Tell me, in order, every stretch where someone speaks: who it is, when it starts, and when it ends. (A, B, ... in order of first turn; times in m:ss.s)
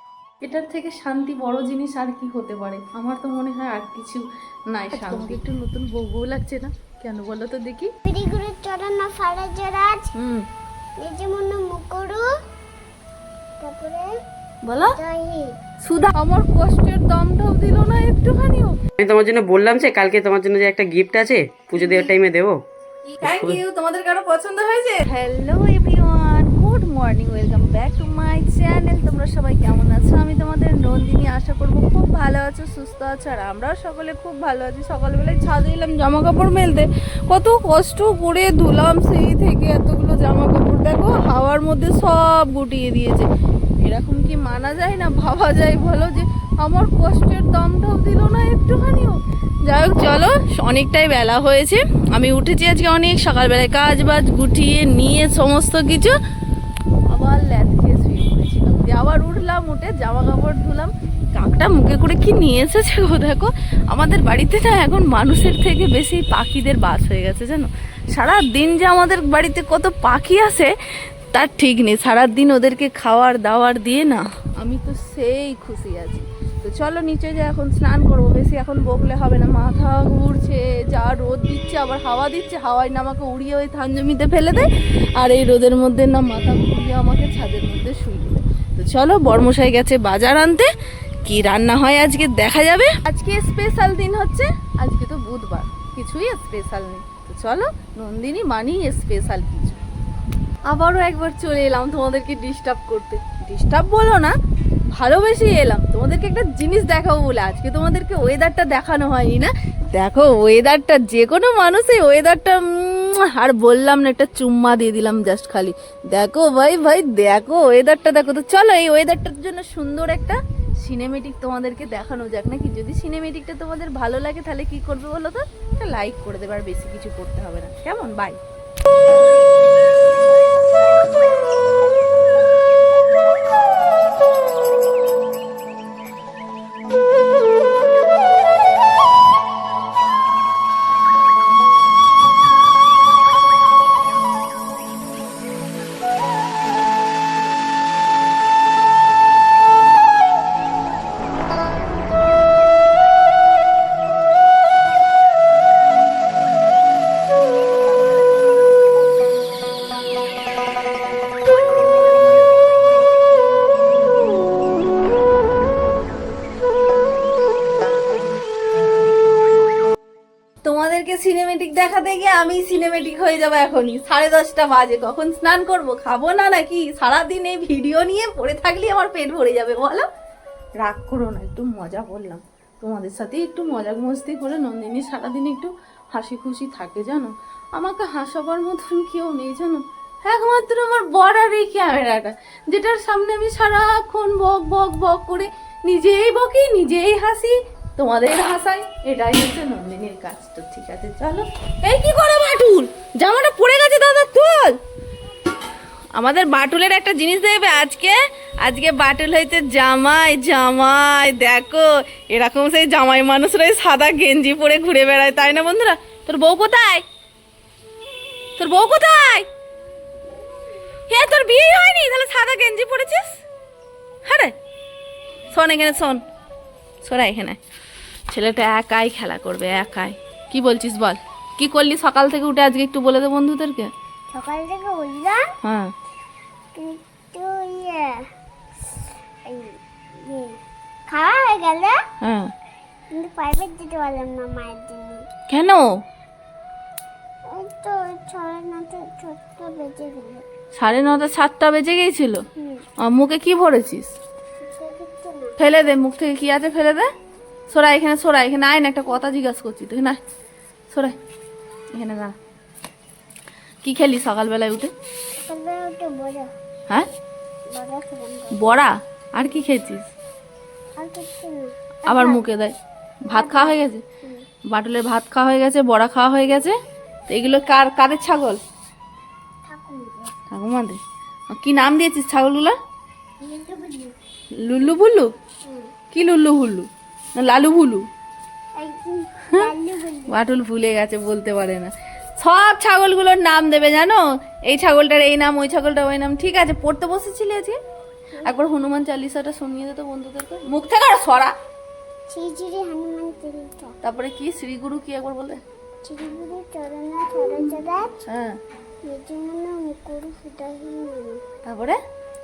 0:00.4-0:07.9 A
0:04.9-0:05.4 B
0:08.0-0:10.1 B
0:10.1-0:10.5 A
0:11.0-0:12.3 B
0:13.6-0:14.2 B
0:14.6-0:15.0 A
0:15.0-0:15.6 B
0:15.8-0:18.8 A
0:19.0-0:22.6 C
0:21.8-0:22.1 A
0:23.0-0:43.3 A
0:23.2-0:23.6 C
0:43.8-0:56.2 A
0:57.1-1:10.7 A
1:11.3-1:30.7 A
1:31.2-1:39.8 A
1:40.7-1:44.4 A
1:44.9-2:08.4 A
2:50.6-3:00.1 A
3:00.8-3:24.8 A
3:26.2-3:37.0 A
3:38.6-3:39.5 A
3:41.1-3:43.4 A
3:44.3-3:44.5 A
3:45.5-3:46.2 A
3:47.0-3:47.6 A
3:48.3-3:53.9 A
3:54.3-3:55.5 B
3:55.6-3:55.9 A
3:56.8-3:58.3 B
3:59.5-4:02.0 B
4:02.2-4:02.5 A
4:03.1-4:05.3 B
4:05.5-4:06.0 A
4:07.5-4:10.4 B
4:10.8-4:12.4 A
4:12.6-4:12.8 B
4:13.0-4:14.2 A
4:14.6-4:15.6 B
4:15.6-4:17.1 A
4:17.7-4:20.2 A
4:20.9-4:21.2 A
4:22.0-4:22.4 A
4:23.8-4:24.9 A
4:25.4-4:26.5 B
4:27.7-4:28.6 B
4:28.5-4:30.1 A
4:31.0-4:32.4 B
4:32.1-4:32.8 A
4:33.3-4:34.0 A
4:33.3-4:34.4 B
4:34.7-4:36.8 A
4:37.3-4:38.6 A
4:39.7-4:40.3 B
4:40.5-4:42.8 A
4:43.4-4:44.2 B
4:44.6-4:45.3 A
4:45.6-4:45.9 B
4:46.1-4:48.1 A
4:48.8-4:50.4 B
4:50.3-4:57.8 A
4:58.4-5:01.5 A
5:02.3-5:04.0 B
5:04.0-5:05.6 A
5:06.0-5:08.2 B
5:08.3-5:08.5 A
5:09.0-5:11.4 B
5:11.6-5:12.0 A